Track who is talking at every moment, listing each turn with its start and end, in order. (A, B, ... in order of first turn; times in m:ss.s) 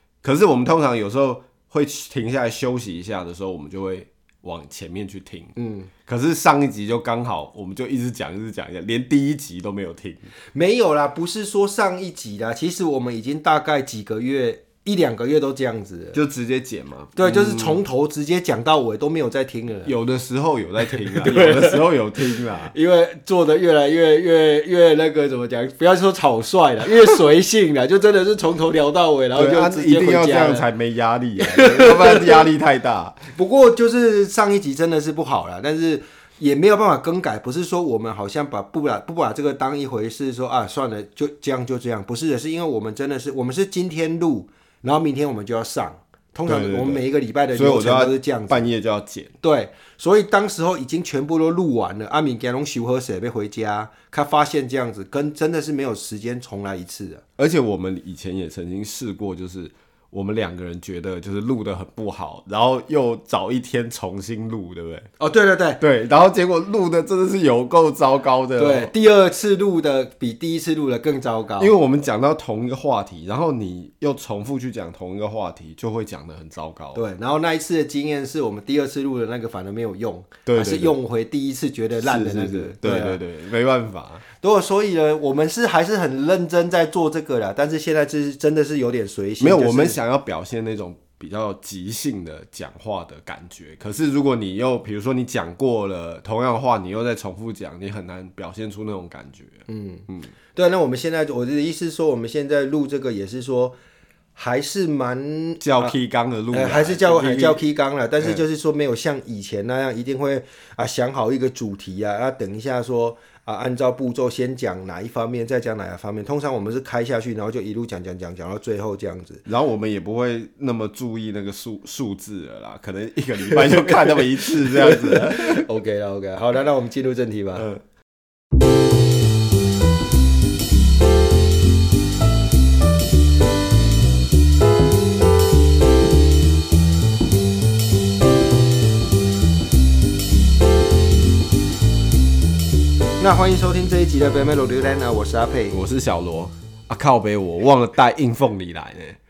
0:00.2-0:05.5 A
0:05.6-0:05.9 B
0:06.0-0:10.3 A
0:10.5-0:16.2 B
0:16.1-0:17.8 A
0:17.2-0:19.9 B
0:19.8-0:22.7 A
0:21.2-0:21.8 B
0:22.7-0:30.6 B
0:29.3-0:33.2 A
0:31.4-0:32.5 B
0:33.3-0:48.7 B
0:46.4-0:49.3 A
0:49.4-0:57.2 B
0:57.4-1:05.1 A
1:05.2-1:05.8 B
1:05.8-1:08.9 A
1:08.6-1:11.7 B
1:11.6-1:17.0 A
1:16.9-1:23.2 B
1:20.4-1:21.0 A
1:22.0-1:24.2 A
1:24.4-1:30.0 B
1:29.4-1:40.3 A
1:39.7-1:43.8 B
1:44.4-1:45.9 B
1:45.6-1:47.6 A
1:46.5-1:59.4 B
1:59.4-2:05.6 A
2:03.5-2:07.7 B
2:23.2-2:25.8 B
2:25.7-2:29.2 A